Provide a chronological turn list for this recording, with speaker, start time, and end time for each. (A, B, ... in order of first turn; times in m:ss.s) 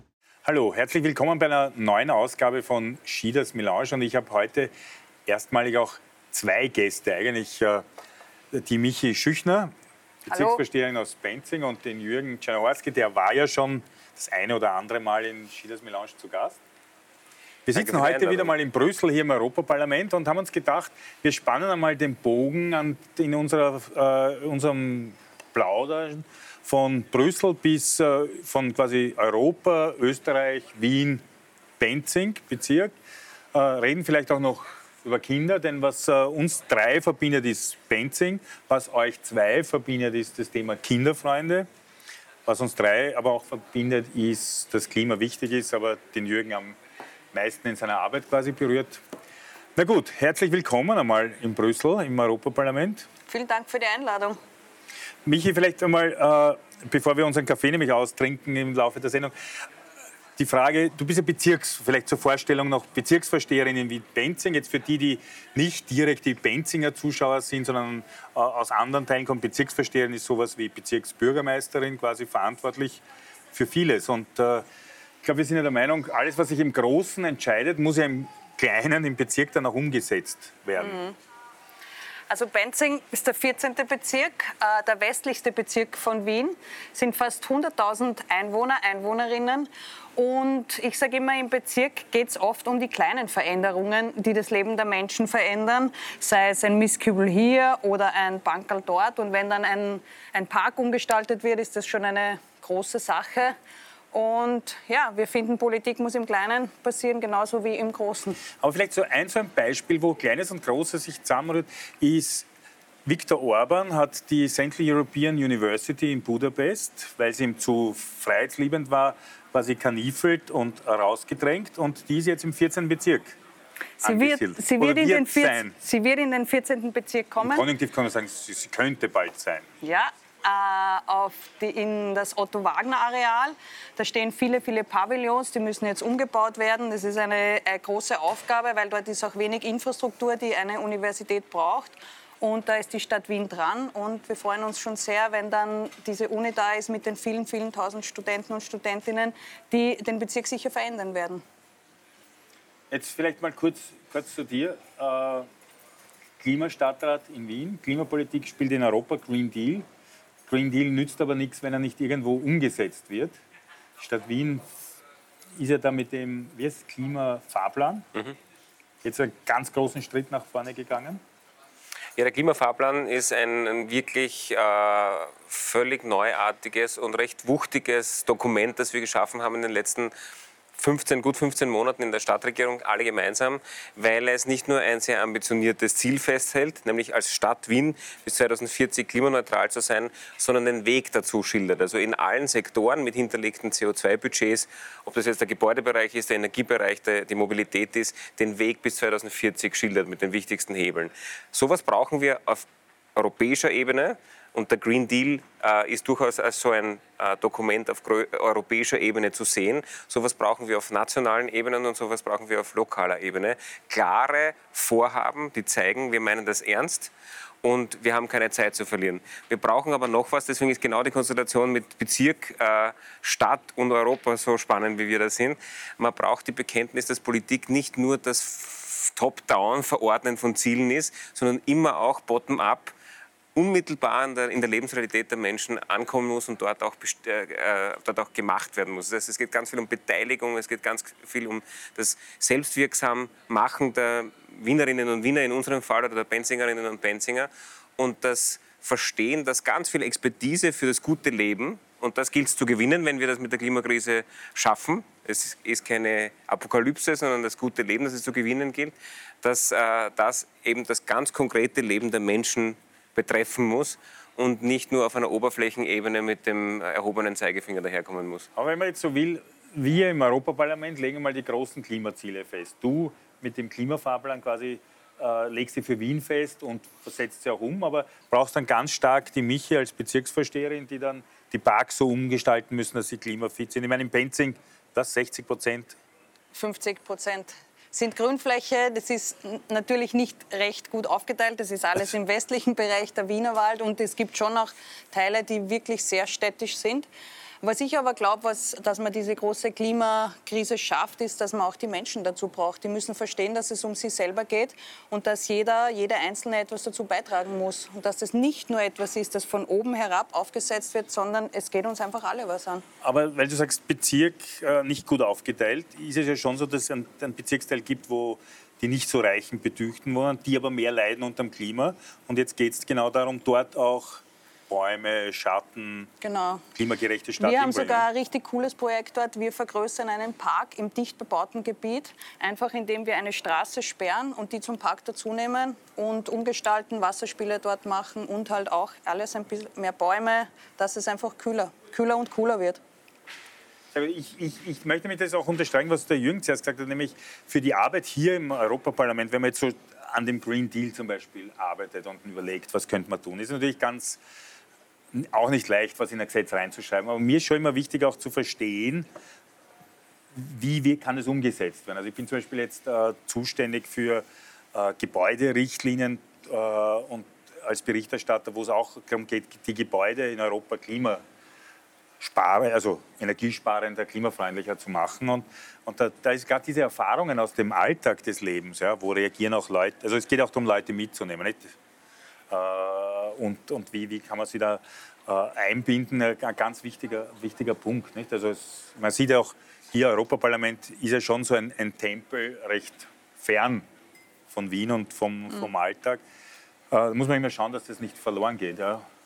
0:00.4-0:04.7 A
0:05.3-0:07.8 A
0:08.5-0:09.7 A
0:10.2-0:16.6 A
0:10.3-0:10.6 B
0:17.7-0:31.2 A
0:17.8-0:18.5 C
0:31.8-0:32.9 A
0:33.5-0:41.7 A
0:42.5-0:46.8 A
0:47.3-0:49.0 A
0:49.8-0:53.1 A
0:53.3-0:54.4 B
0:55.3-0:59.3 A
1:00.4-1:13.0 A
1:13.5-1:14.6 A
1:15.2-1:21.0 A
1:20.8-1:21.2 B
1:22.3-1:43.5 B
1:44.1-1:48.4 B
1:48.6-1:52.5 A
1:53.1-2:03.4 A
2:04.0-2:07.6 B
2:04.0-2:05.7 A
2:07.4-2:09.7 A
2:09.8-2:31.4 B
2:32.9-2:35.5 A
2:36.4-2:39.8 A
2:40.5-2:43.4 A
2:44.0-2:44.6 A
2:45.6-2:48.1 A
2:49.0-2:51.2 A
2:52.2-3:00.1 C
3:00.8-3:37.1 C
3:37.6-3:52.9 C
3:53.6-4:28.5 C
4:28.6-4:46.0 A
4:46.5-4:57.1 B
4:57.6-5:12.8 B
5:13.0-5:26.1 A
5:26.2-5:26.6 B
5:26.8-5:28.1 A
5:27.4-5:42.8 B
5:43.9-5:54.2 A
5:55.1-5:59.1 A
6:00.3-6:11.2 A
6:12.2-6:21.8 A
6:22.5-6:33.9 A
6:34.5-6:36.2 A
6:36.9-6:39.1 A